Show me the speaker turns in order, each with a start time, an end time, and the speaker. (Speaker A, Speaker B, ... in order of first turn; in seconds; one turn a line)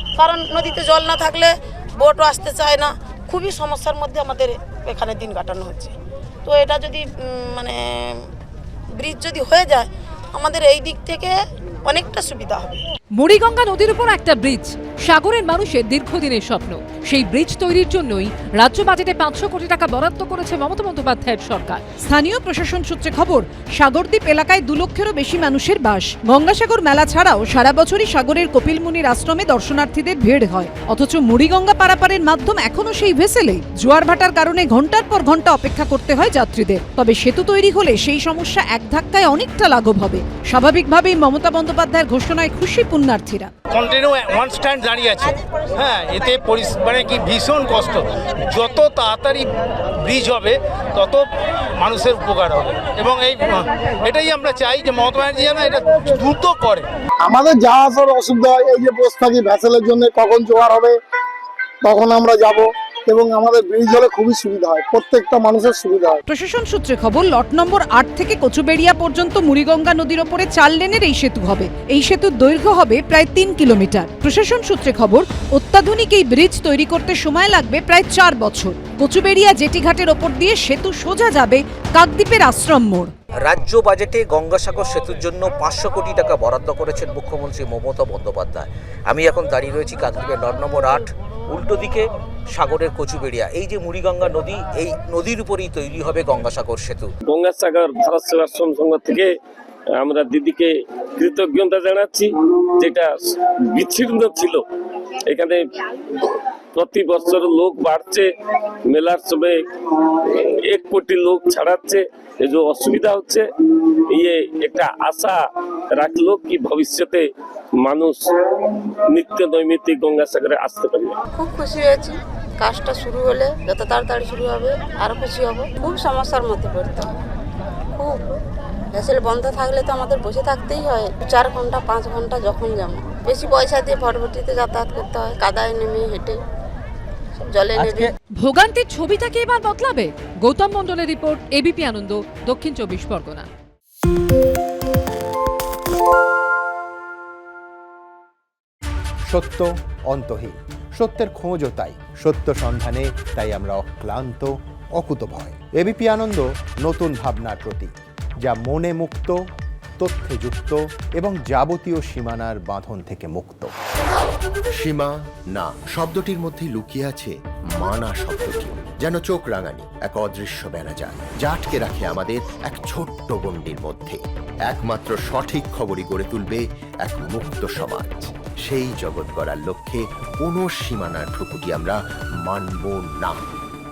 Speaker A: 0.2-5.9
Speaker A: 6.4-8.2
Speaker A: 9.0-11.3
Speaker A: 11.8-12.8
Speaker B: 13.1-21.8
Speaker C: 22.0-43.5
Speaker D: 43.7-56.9
Speaker E: 57.2-61.0
Speaker E: 61.8-66.2
Speaker C: 66.3-83.1
Speaker F: 83.4-97.1
Speaker G: 97.3-99.3
Speaker G: 99.9-103.1
Speaker G: 103.7-104.6
Speaker G: 105.3-108.3
Speaker G: 108.9-113.5
Speaker G: 114.1-115.4
Speaker G: 115.9-117.3
Speaker G: 117.8-121.2
Speaker H: 121.3-127.1
Speaker H: 128.0-128.2
Speaker H: 128.9-136.4
Speaker H: 137.4-138.1
Speaker B: 138.4-143.5
Speaker I: 149.3-159.4
Speaker I: 160.0-163.7
Speaker J: 164.8-183.4